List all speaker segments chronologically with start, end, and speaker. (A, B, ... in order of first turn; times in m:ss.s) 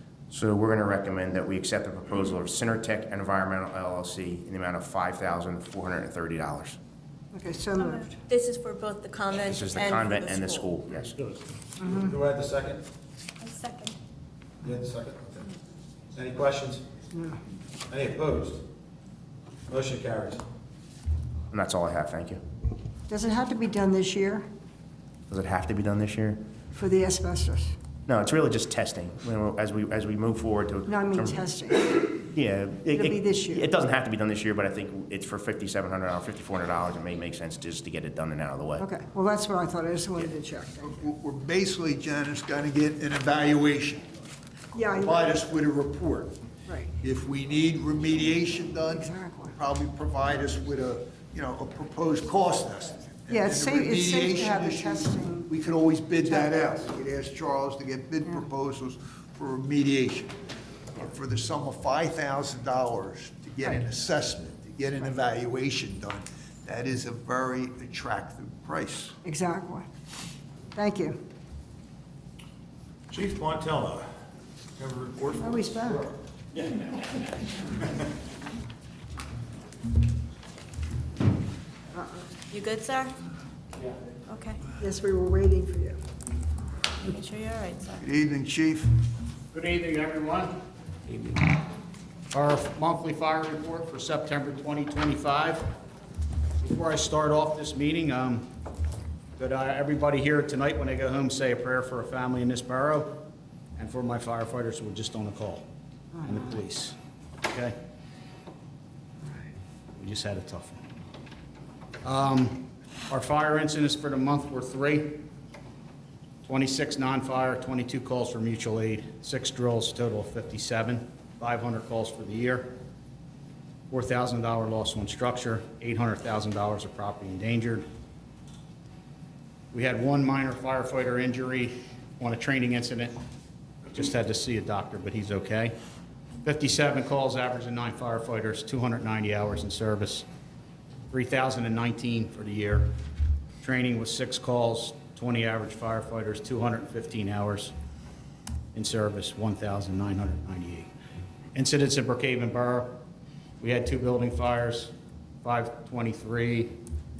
0:00.3-0:06.8 A
0:07.3-0:08.2 B
0:07.8-0:10.7 C
0:09.4-0:11.1 A
0:11.8-0:12.8 D
0:13.4-0:14.0 C
0:14.6-0:15.4 D
0:16.1-0:16.8 D
0:17.1-0:17.4 B
0:17.9-0:18.6 D
0:19.7-0:20.4 D
0:21.5-0:22.4 A
0:23.1-0:24.4 B
0:25.3-0:26.4 A
0:26.7-0:27.7 B
0:28.1-0:38.8 A
0:30.9-0:32.0 B
0:32.9-0:33.7 B
0:38.8-0:41.1 B
0:40.9-0:44.1 E
0:44.7-0:45.3 B
0:45.0-0:46.3 E
0:46.6-0:46.9 B
0:47.0-1:00.3 E
0:48.9-0:49.6 B
0:53.3-0:55.5 B
0:56.3-0:56.5 B
1:00.9-1:09.2 E
1:09.2-1:09.8 B
1:10.7-1:11.2 B
1:13.1-1:14.1 D
1:14.8-1:16.0 D
1:15.4-1:16.0 B
1:21.9-1:22.2 B
1:22.5-1:23.1 C
1:24.2-1:24.6 C
1:24.8-1:26.0 B
1:27.0-1:28.0 C
1:28.0-1:28.9 E
1:29.5-1:31.6 F
1:32.3-1:35.6 F
1:36.6-1:38.5 F
1:39.4-1:43.2 F
1:43.8-1:45.7 F
1:46.2-1:47.7 F
1:49.9-1:50.8 F
1:52.0-1:55.2 F
1:56.4-2:02.8 F
2:03.9-2:07.8 F
2:09.7-2:13.2 F
2:13.9-2:15.7 F
2:16.4-2:20.2 F
2:21.1-2:22.9 F
2:23.6-2:27.7 F
2:28.7-2:30.9 F
2:31.5-2:33.0 F
2:33.6-2:36.8 F